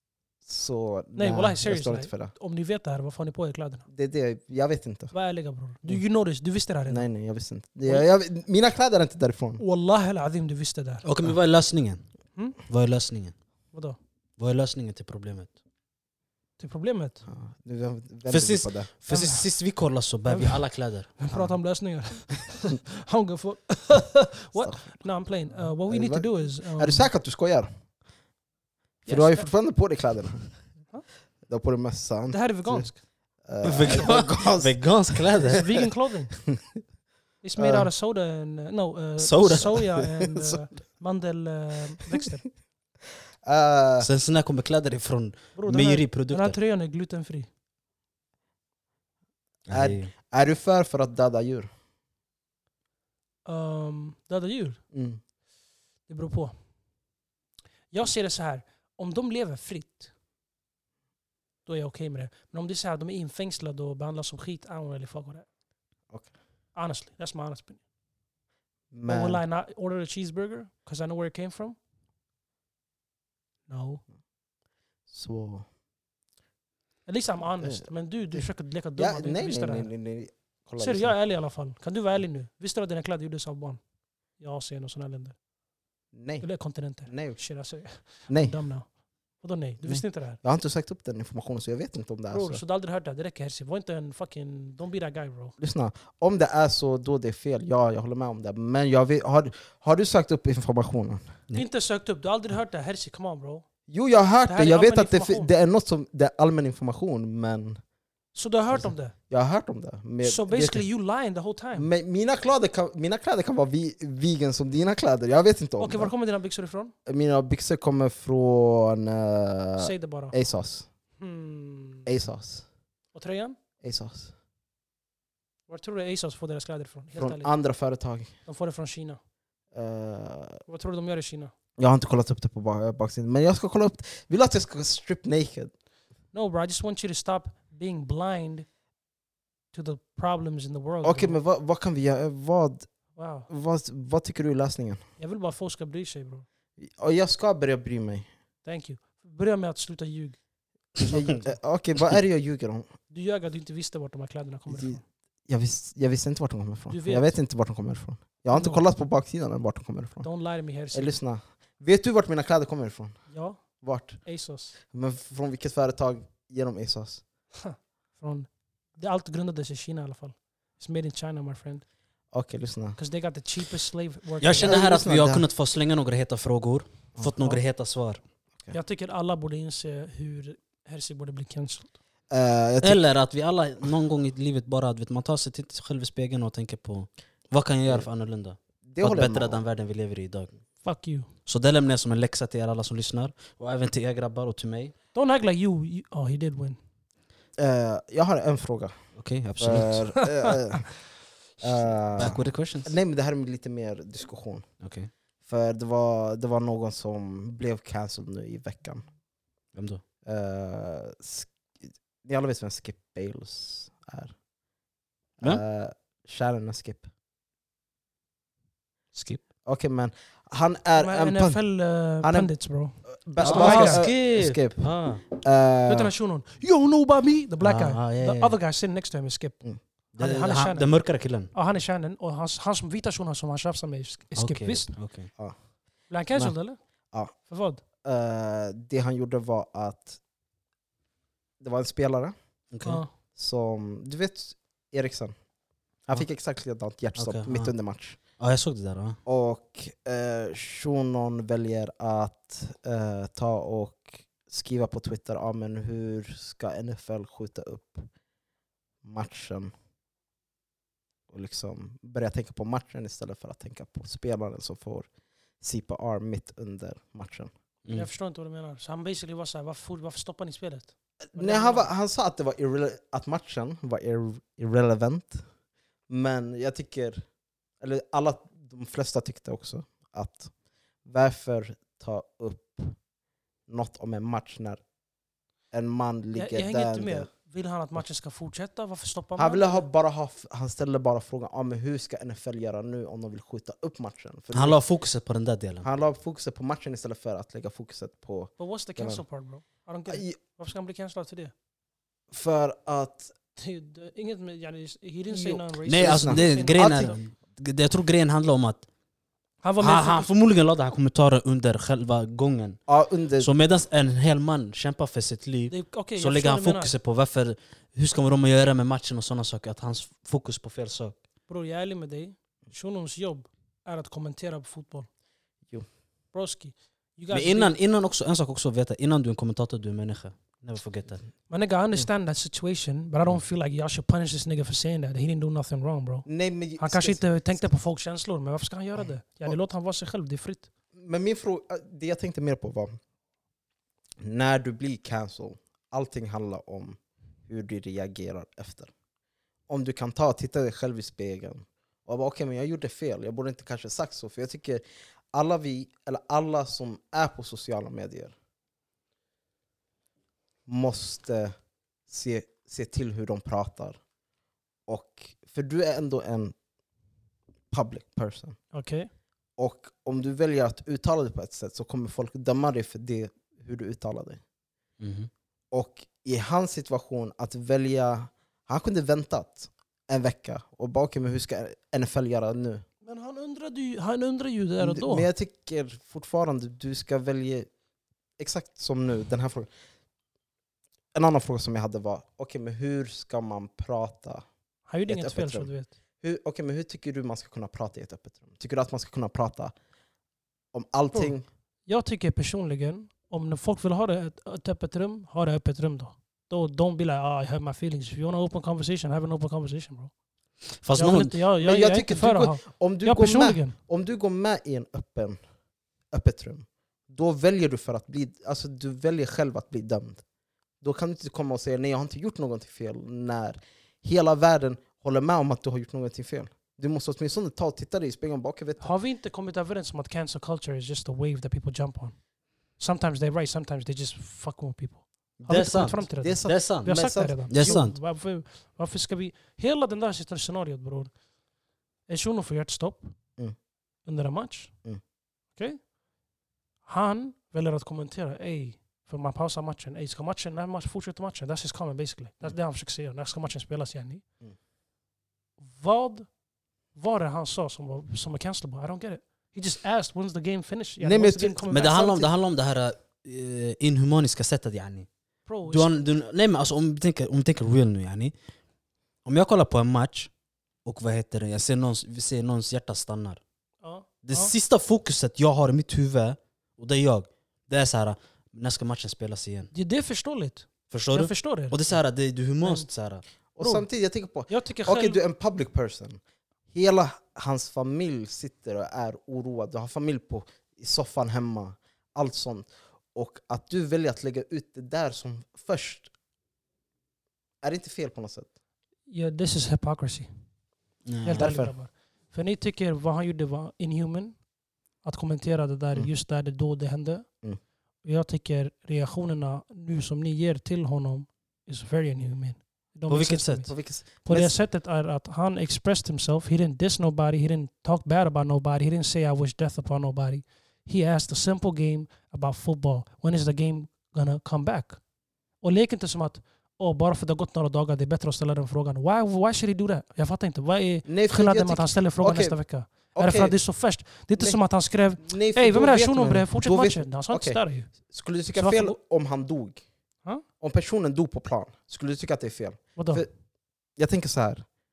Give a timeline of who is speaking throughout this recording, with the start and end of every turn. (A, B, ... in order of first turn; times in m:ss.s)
0:00.4-0:02.3 A
0:01.2-0:03.9 B
0:03.9-0:05.1 A
0:05.1-0:07.1 B
0:06.9-0:09.6 A
0:09.6-0:11.0 B
0:11.0-0:12.0 C
0:12.7-0:13.4 C
0:13.7-0:14.0 B
0:14.4-0:15.6 C
0:16.6-0:17.2 B
0:17.3-0:18.9 A
0:18.3-0:21.1 C
0:19.1-0:19.5 B
0:20.3-0:27.1 B
0:21.3-0:21.6 A
0:25.9-0:27.7 A
0:29.1-0:30.6 A
0:29.1-0:29.5 B
0:31.5-0:32.9 A
0:32.3-0:33.0 B
0:33.4-0:35.6 A
0:33.6-0:35.8 C
0:35.5-0:36.4 B
0:37.4-0:42.5 B
0:37.6-0:37.9 A
0:39.2-0:39.9 C
0:43.4-0:44.1 A
0:44.0-0:46.6 C
0:45.6-0:47.5 B
0:49.7-0:50.1 C
0:49.7-0:51.7 A
0:53.4-0:54.8 B
0:54.9-0:55.2 A
0:56.1-0:56.6 B
0:57.9-1:00.1 B
1:01.7-1:05.5 B
1:06.7-1:07.8 B
1:08.9-1:09.4 A
1:09.0-1:11.8 B
1:13.7-1:14.0 B
1:15.1-1:15.7 A
1:17.1-1:19.9 B
1:17.6-1:21.2 A
1:20.8-1:23.8 B
1:24.4-1:25.4 B
1:26.1-1:27.4 A
1:26.4-1:30.4 B
1:28.3-1:28.6 A
1:29.8-1:32.6 A
1:32.3-1:35.6 B
1:35.6-1:41.3 A
1:41.5-1:43.7 B
1:43.9-1:47.8 A
1:44.5-1:45.5 B
1:48.3-1:49.2 B
1:48.7-1:50.8 A
1:50.2-1:51.9 B
1:51.8-1:56.1 A
1:55.8-1:56.9 B
1:57.1-2:00.9 A
1:59.8-2:00.4 B
2:01.2-2:02.1 B
2:02.1-2:02.7 A
2:03.1-2:03.6 B
2:03.8-2:04.3 A
2:05.7-2:07.5 B
2:07.2-2:08.3 A
2:08.5-2:09.2 B
2:09.7-2:10.6 A
2:10.7-2:11.5 B
2:11.8-2:15.7 A
2:16.3-2:18.7 B
2:19.7-2:21.4 B
2:21.0-2:22.9 A
2:23.2-2:23.5 B
2:23.5-2:25.0 A
2:25.2-2:26.5 B
2:26.8-2:28.3 A
2:28.6-2:30.4 B
2:31.0-2:32.9 A
2:33.1-2:35.0 B
2:34.7-2:40.3 A
2:36.9-2:37.4 B
2:38.5-2:38.8 B
2:40.2-2:41.2 B
2:40.9-2:43.2 A
2:43.3-2:43.6 B
2:43.8-2:44.2 A
2:44.2-2:44.8 B
2:44.9-2:47.2 A
2:47.6-2:51.8 B
2:52.3-2:53.0 A
2:53.0-2:54.8 B
2:54.4-2:58.2 C
2:54.6-2:55.5 A
2:57.2-2:57.6 A
2:58.7-3:01.9 B
3:02.3-3:03.0 A
3:02.8-3:10.5 C
3:08.9-3:09.6 A
3:10.8-3:11.3 B
3:11.5-3:14.9 C
3:15.1-3:16.8 B
3:17.6-3:19.0 A
3:19.2-3:20.2 C
3:19.6-3:21.0 A
3:21.6-3:24.7 A
3:22.2-3:22.9 C
3:24.8-3:25.1 C
3:25.4-3:29.1 A
3:29.7-3:30.0 C
3:30.2-3:34.4 A
3:35.4-3:37.1 A
3:39.1-3:39.4 C
3:39.6-3:41.6 A
3:41.0-3:44.0 B
3:42.2-3:42.5 A
3:43.0-3:46.1 A
3:43.4-3:45.2 C
3:45.9-3:50.9 B
3:47.6-3:48.6 C
3:50.1-3:51.5 C
3:51.5-3:54.9 B
3:54.4-3:55.3 C
3:56.1-3:56.8 B
3:57.4-3:57.8 B
3:58.0-4:00.2 A
4:01.6-4:02.3 A
4:02.7-4:03.0 C
4:02.8-4:03.1 B
4:03.4-4:05.3 A
4:06.1-4:08.2 A
4:07.2-4:07.7 C
4:08.4-4:09.2 C
4:09.3-4:18.1 A
4:19.0-4:19.7 A
4:21.3-4:25.1 A
4:25.6-4:27.5 A
4:27.9-4:31.9 B
4:31.3-4:35.4 A
4:36.1-4:37.2 A
4:37.8-4:40.5 A
4:41.0-4:43.0 A
4:43.7-4:44.8 A
4:45.7-4:47.3 A
4:46.4-4:49.9 B
4:49.4-4:54.8 A
4:54.5-4:55.9 C
4:55.8-4:59.2 A
4:58.6-5:01.5 B
5:00.1-5:00.4 A
5:02.3-5:03.3 A
5:03.6-5:07.2 B
5:05.3-5:07.1 A
5:05.9-5:08.9 C
5:09.6-5:10.3 B
5:09.8-5:12.8 C
5:12.9-5:13.5 A
5:13.4-5:21.2 C
5:15.7-5:16.9 B
5:21.5-5:25.1 B
5:26.3-5:27.8 B
5:27.3-5:31.2 C
5:31.5-5:36.3 B
5:36.3-5:37.5 A
5:36.8-5:40.7 B
5:41.0-5:43.0 A
5:44.2-5:48.9 A
5:49.7-5:58.3 A
6:00.7-6:01.5 A
6:02.1-6:04.0 A
6:04.9-6:06.5 A
6:07.7-6:08.6 A
6:08.7-6:09.1 B
6:09.6-6:14.4 A
6:15.0-6:15.3 C
6:15.7-6:22.8 A
6:23.0-6:25.3 B
6:24.8-6:27.7 A
6:28.4-6:29.7 A
6:31.1-6:34.4 A
6:34.9-6:35.9 B
6:35.1-6:39.7 A
6:40.7-6:41.4 A
6:41.9-6:50.1 B
6:50.8-6:51.4 C
6:51.0-6:53.8 B
6:51.6-6:55.4 A
6:56.1-7:00.2 A
7:00.8-7:08.9 A
7:08.8-7:12.2 B
7:12.8-7:21.1 B
7:15.4-7:17.8 A
7:15.5-7:18.0 C
7:22.1-7:23.2 B
7:24.0-7:24.8 B
7:25.6-7:25.8 B
7:26.8-7:34.2 B
7:35.6-7:36.3 B
7:37.0-7:42.1 B
7:41.0-7:42.3 A
7:41.7-7:45.1 C
7:45.5-7:45.9 B
7:45.7-7:48.3 C
7:49.2-7:50.3 C
7:50.8-7:53.4 C
7:53.8-7:54.5 B
7:54.2-7:59.7 C
7:59.7-8:01.8 B
8:00.9-8:03.2 C
8:02.6-8:02.9 B
8:03.6-8:06.2 A
8:03.6-8:03.8 B
8:04.5-8:05.2 B
8:06.7-8:16.1 A
8:17.6-8:18.5 A
8:19.1-8:20.3 B
8:21.1-8:21.5 C
8:21.2-8:24.4 B
8:21.4-8:21.7 A
8:25.0-8:27.3 B
8:28.0-8:33.7 B
8:33.1-8:33.7 C
8:33.7-8:34.6 A
8:34.2-8:45.0 B
8:45.6-8:57.9 B
8:51.1-8:52.6 A
8:53.1-8:53.6 A
8:55.2-8:59.8 A
8:58.5-8:59.0 B
9:00.6-9:03.3 A
9:03.0-9:03.3 B
9:04.0-9:04.7 A